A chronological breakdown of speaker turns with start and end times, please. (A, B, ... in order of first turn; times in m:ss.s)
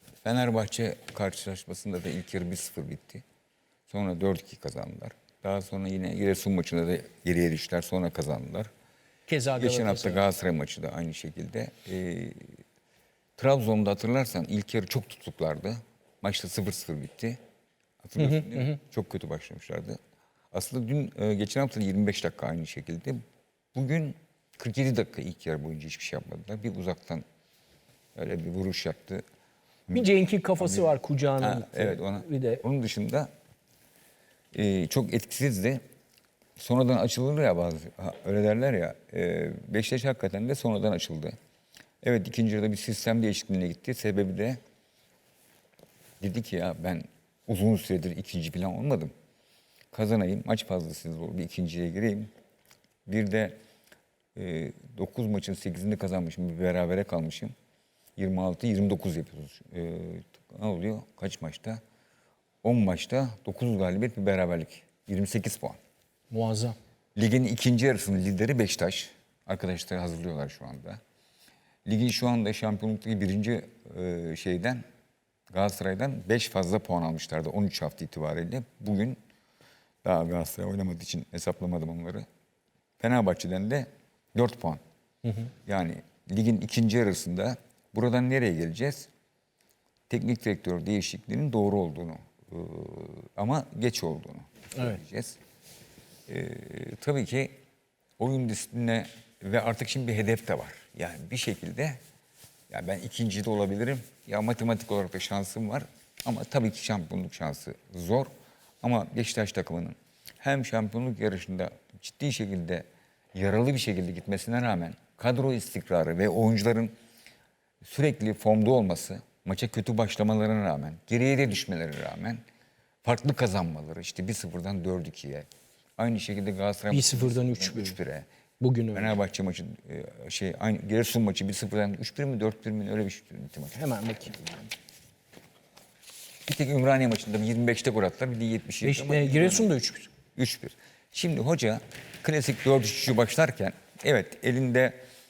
0:00.2-0:03.2 A
0:03.9-0:08.7 A
0:09.3-0:10.2 B
0:09.6-0:12.5 A
0:13.4-0:17.4 A
0:18.0-0:20.0 A
0:18.2-0:18.8 B
0:20.5-0:23.2 A
0:23.7-0:27.2 A
0:28.2-0:29.2 A
0:29.9-0:32.6 B
0:30.6-0:33.3 A
0:34.5-0:35.8 A
0:36.6-0:41.3 A
0:42.0-0:44.6 A
0:46.2-0:49.1 A
0:49.9-0:52.3 A
0:53.0-0:53.5 A
0:54.3-0:57.5 A
0:58.2-1:01.8 A
1:02.6-1:05.8 A
1:06.3-1:06.8 B
1:07.2-1:11.0 A
1:11.8-1:14.8 A
1:15.5-1:19.2 A
1:20.0-1:22.2 A
1:23.0-1:24.8 A
1:25.6-1:29.1 A
1:30.1-1:35.4 A
1:34.7-1:35.0 B
1:36.3-1:37.5 A
1:38.2-1:42.0 A
1:42.7-1:48.3 A
1:48.8-1:56.9 A
1:57.8-2:02.4 A
2:03.0-2:05.5 A
2:06.0-2:08.2 A
2:06.9-2:08.0 B
2:08.6-2:09.1 B
2:08.9-2:13.8 A
2:13.8-2:14.5 B
2:16.5-2:19.7 A
2:18.8-2:20.1 B
2:20.4-2:25.0 A